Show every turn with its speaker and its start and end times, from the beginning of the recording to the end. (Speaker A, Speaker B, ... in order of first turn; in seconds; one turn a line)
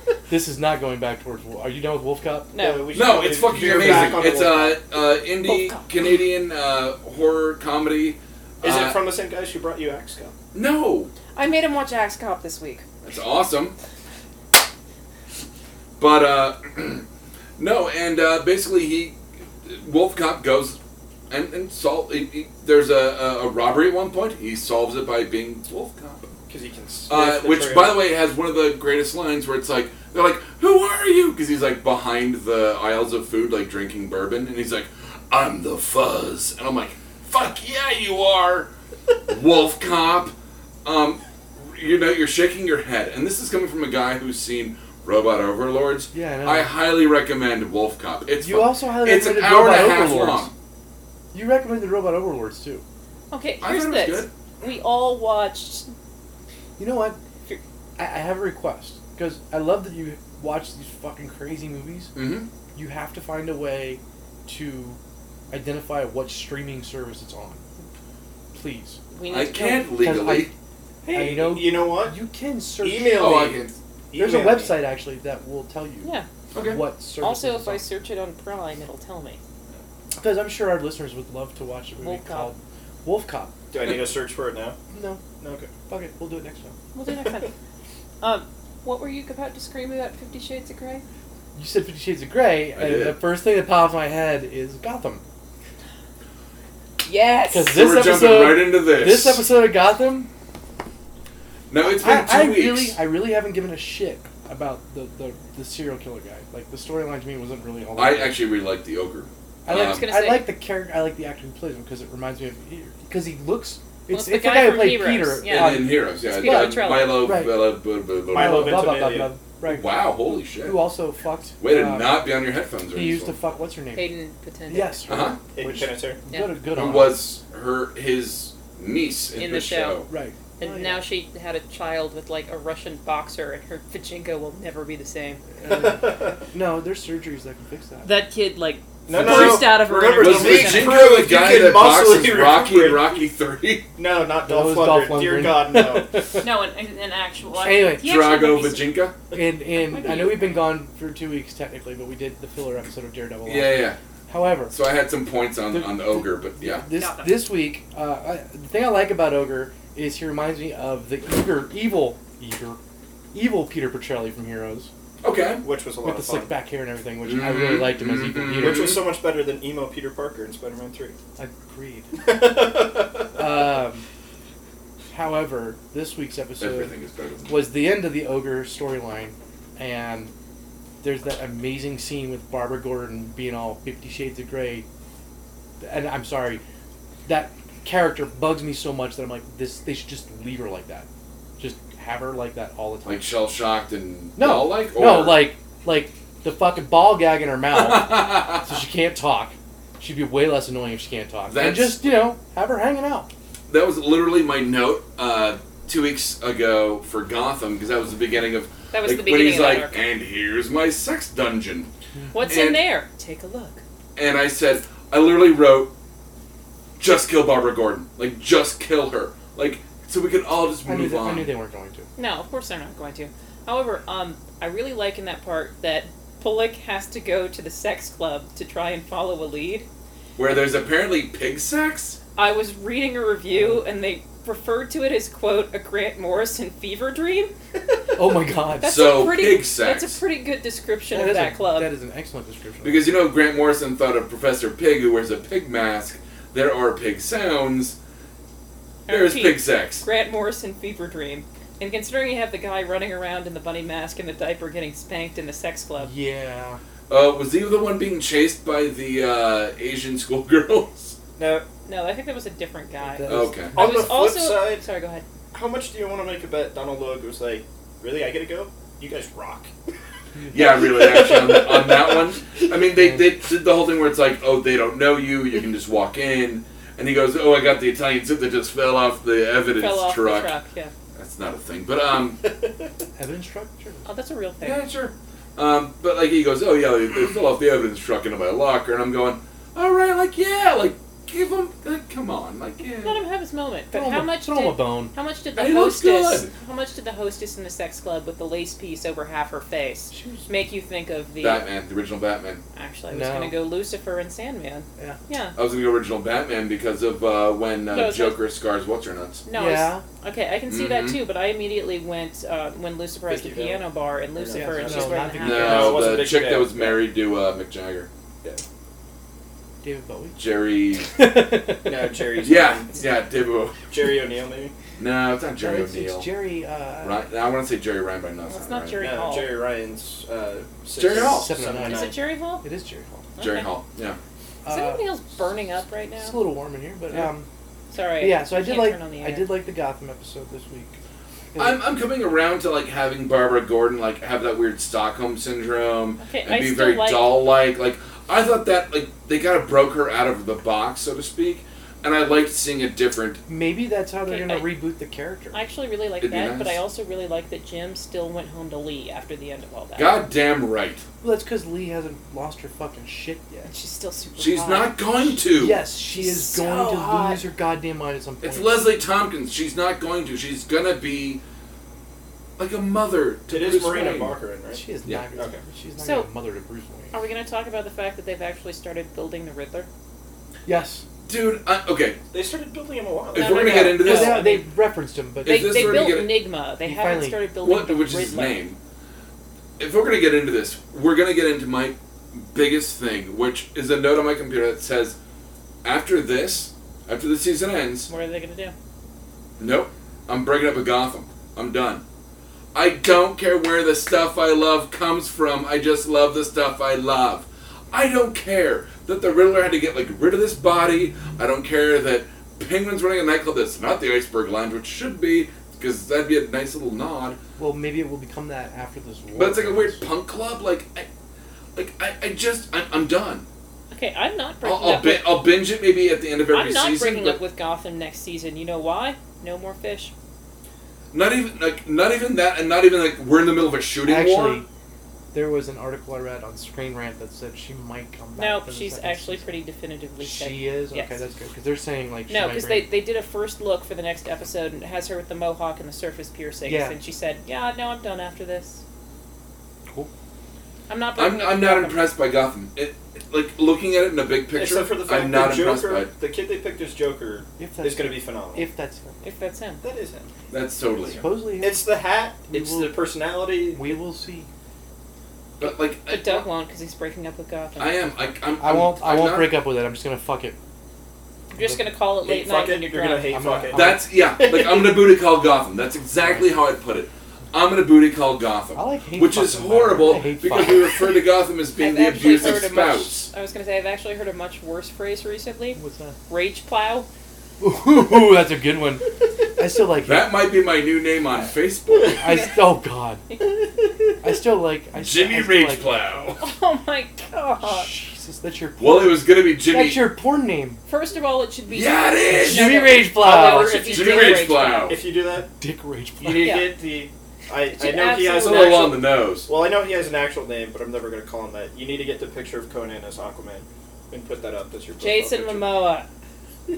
Speaker A: 0.3-2.5
Speaker B: 2.5-2.8
Speaker C: 2.5-4.8
Speaker D: 2.9-9.0
Speaker A: 3.8-4.1
Speaker B: 5.5-5.8
Speaker C: 8.6-10.3
Speaker D: 10.5-11.1
Speaker B: 11.3-12.8
Speaker D: 13.0-13.8
Speaker D: 16.0-17.0
Speaker D: 17.6-20.8
Speaker D: 21.3-26.3
Speaker C: 26.5-28.0
Speaker D: 27.1-38.7
Speaker D: 39.3-40.3
Speaker D: 40.8-50.5
Speaker A: 46.1-46.7
Speaker A: 48.4-50.5
Speaker A: 51.3-52.8
Speaker B: 53.3-55.9
Speaker D: 53.6-54.3
Speaker A: 56.8-57.2
Speaker A: 58.0-62.1
Speaker D: 62.1-62.5
Speaker A: 62.7-65.0
Speaker A: 65.5-67.6
Speaker A: 68.5-69.0
Speaker B: 69.1-69.9
Speaker D: 69.3-70.5
Speaker A: 70.0-70.5
Speaker C: 71.0-72.1
Speaker A: 71.1-73.6
Speaker C: 72.8-74.8
Speaker D: 73.2-73.7
Speaker A: 74.1-77.8
Speaker D: 76.5-76.8
Speaker B: 77.2-79.4
Speaker A: 80.2-83.6
Speaker B: 82.0-82.5
Speaker C: 83.7-84.8
Speaker A: 84.9-85.2
Speaker C: 85.4-85.7
Speaker A: 85.9-86.8
Speaker B: 86.9-87.5
Speaker B: 88.2-91.0
Speaker A: 91.5-95.2
Speaker D: 92.7-93.2
Speaker B: 97.0-97.8
Speaker A: 97.5-100.3
Speaker D: 97.7-99.4
Speaker D: 101.7-103.0
Speaker A: 101.8-108.4
Speaker D: 108.0-110.0
Speaker A: 109.6-117.7
Speaker B: 109.7-110.5
Speaker B: 114.1-117.3
Speaker D: 115.5-118.9
Speaker C: 118.3-119.3
Speaker A: 118.3-122.3
Speaker D: 119.7-120.8
Speaker D: 121.6-123.3
Speaker A: 122.9-124.1
Speaker B: 123.9-125.1
Speaker A: 124.7-127.2
Speaker D: 125.1-125.4
Speaker C: 125.5-126.2
Speaker D: 126.7-130.1
Speaker B: 129.3-130.1
Speaker A: 130.1-131.0
Speaker B: 130.6-135.4
Speaker A: 135.6-138.1
Speaker C: 135.6-136.4
Speaker B: 138.0-141.0
Speaker C: 139.1-143.1
Speaker D: 139.1-143.9
Speaker C: 143.9-146.1
Speaker A: 144.4-146.5
Speaker B: 146.4-148.9
Speaker A: 147.6-148.0
Speaker D: 148.0-149.2
Speaker A: 149.3-154.7
Speaker B: 149.7-150.7
Speaker D: 153.4-154.0
Speaker D: 154.7-156.8
Speaker A: 155.7-162.8
Speaker B: 156.9-157.5
Speaker A: 163.3-164.9
Speaker D: 165.2-165.6
Speaker C: 165.6-166.5
Speaker A: 166.0-169.0
Speaker D: 167.2-169.0
Speaker C: 168.6-171.2
Speaker A: 171.4-172.1
Speaker C: 172.2-173.4
Speaker A: 173.3-174.1
Speaker A: 175.1-176.9
Speaker D: 176.6-177.7
Speaker A: 177.5-180.3
Speaker A: 181.0-184.8
Speaker A: 185.8-186.6
Speaker A: 187.2-191.1
Speaker A: 191.6-193.3
Speaker D: 193.1-195.5
Speaker A: 194.4-203.3
Speaker D: 197.7-198.7
Speaker D: 201.5-202.0
Speaker D: 203.7-211.9
Speaker B: 208.9-210.1
Speaker A: 212.2-212.5
Speaker B: 212.3-213.8
Speaker D: 212.4-212.8
Speaker D: 214.2-215.9
Speaker D: 217.0-221.5
Speaker A: 220.8-222.1
Speaker B: 222.2-229.9
Speaker D: 230.3-232.2
Speaker B: 232.3-237.5
Speaker A: 233.5-233.8
Speaker A: 238.2-238.9
Speaker B: 238.8-241.9
Speaker D: 238.8-240.2
Speaker A: 241.1-243.0
Speaker D: 242.8-248.0
Speaker B: 249.1-256.1
Speaker D: 249.1-250.0
Speaker A: 256.0-256.8
Speaker D: 257.1-261.1
Speaker C: 261.4-261.6
Speaker B: 261.8-265.2
Speaker A: 263.0-263.8
Speaker D: 263.3-263.8
Speaker C: 263.7-264.8
Speaker C: 265.5-269.7
Speaker A: 270.4-270.6
Speaker C: 270.5-272.3
Speaker D: 270.5-280.5
Speaker A: 272.9-273.3
Speaker B: 279.8-280.9
Speaker D: 281.1-282.4
Speaker C: 282.4-282.7
Speaker A: 283.2-284.1
Speaker B: 284.1-284.8
Speaker D: 284.6-293.2
Speaker B: 293.0-301.6
Speaker A: 293.9-295.1
Speaker D: 295.5-296.5
Speaker A: 300.1-300.5
Speaker D: 301.4-302.6
Speaker B: 302.7-305.6
Speaker A: 303.1-303.6
Speaker D: 305.6-309.4
Speaker B: 307.9-308.4
Speaker B: 309.4-316.0
Speaker A: 309.5-310.0
Speaker D: 310.7-311.2
Speaker C: 313.3-317.0
Speaker A: 314.5-316.1
Speaker D: 315.4-318.1
Speaker A: 319.8-320.4
Speaker D: 320.4-321.1
Speaker A: 321.1-322.3
Speaker C: 321.8-322.9
Speaker D: 322.4-323.9
Speaker C: 323.9-324.7
Speaker D: 325.0-326.3
Speaker A: 325.6-327.2
Speaker D: 327.0-329.0
Speaker B: 328.5-329.6
Speaker C: 329.0-332.2
Speaker D: 330.9-331.6
Speaker A: 331.1-333.3
Speaker B: 331.8-332.6
Speaker B: 333.4-333.7
Speaker D: 333.4-334.2
Speaker A: 334.6-335.0
Speaker B: 334.7-336.4
Speaker A: 336.2-337.5
Speaker B: 337.9-339.5
Speaker A: 338.2-341.0
Speaker A: 341.5-341.8
Speaker D: 341.6-353.4
Speaker B: 346.2-347.4
Speaker A: 353.5-355.6
Speaker B: 354.3-354.7
Speaker B: 355.5-360.1
Speaker D: 356.2-356.8
Speaker D: 360.0-361.0
Speaker A: 361.2-363.7
Speaker B: 363.7-365.4
Speaker D: 364.4-365.8
Speaker A: 365.5-368.8
Speaker B: 366.1-367.4
Speaker D: 368.4-371.4
Speaker D: 372.6-374.4
Speaker C: 373.5-374.8
Speaker A: 374.7-377.1
Speaker C: 375.3-375.6
Speaker B: 376.0-376.3
Speaker B: 377.1-379.9
Speaker A: 380.6-381.0
Speaker D: 381.2-382.2
Speaker C: 382.3-383.9
Speaker D: 383.3-384.4
Speaker B: 383.3-384.7
Speaker A: 383.9-386.2
Speaker D: 385.4-386.4
Speaker B: 385.4-388.6
Speaker A: 386.8-387.4
Speaker D: 387.6-388.8
Speaker D: 389.8-395.2
Speaker D: 395.8-398.1
Speaker B: 398.1-398.7
Speaker D: 399.6-402.0
Speaker D: 402.7-417.4
Speaker A: 417.6-420.0
Speaker D: 419.3-421.1
Speaker D: 421.7-423.4
Speaker B: 423.9-425.4
Speaker D: 424.6-427.4
Speaker B: 426.5-430.1
Speaker D: 431.1-434.6
Speaker A: 434.0-434.7
Speaker A: 435.3-439.5
Speaker B: 438.4-441.2
Speaker A: 440.2-442.9
Speaker B: 442.3-448.8
Speaker A: 446.6-447.0
Speaker B: 450.9-452.1
Speaker D: 451.1-456.1
Speaker C: 454.5-458.7
Speaker A: 457.6-459.2
Speaker B: 459.2-459.8
Speaker C: 459.8-460.3
Speaker D: 460.5-461.2
Speaker A: 461.1-461.9
Speaker C: 461.6-464.0
Speaker A: 462.5-463.0
Speaker A: 463.7-464.5
Speaker D: 465.6-466.5
Speaker B: 465.6-468.3
Speaker D: 467.8-469.6
Speaker A: 468.6-470.6
Speaker B: 471.5-473.4
Speaker A: 471.6-471.8
Speaker C: 472.2-475.0
Speaker A: 473.3-474.0
Speaker D: 473.7-483.3
Speaker A: 476.2-476.5
Speaker A: 478.7-481.1
Speaker B: 481.8-487.1
Speaker A: 485.7-486.2
Speaker A: 487.6-489.1
Speaker A: 489.6-490.3
Speaker D: 490.0-492.2
Speaker A: 492.0-493.2
Speaker B: 492.3-492.6
Speaker A: 494.2-496.1
Speaker D: 494.9-496.4
Speaker B: 496.4-497.9
Speaker A: 497.6-500.8
Speaker D: 498.8-500.1
Speaker B: 500.9-504.9
Speaker D: 501.7-502.9
Speaker A: 502.3-503.8
Speaker C: 503.2-505.5
Speaker D: 503.6-505.0
Speaker A: 505.4-506.6
Speaker C: 506.2-515.6
Speaker B: 506.4-506.7
Speaker B: 507.7-509.0
Speaker D: 508.2-509.5
Speaker B: 515.0-516.1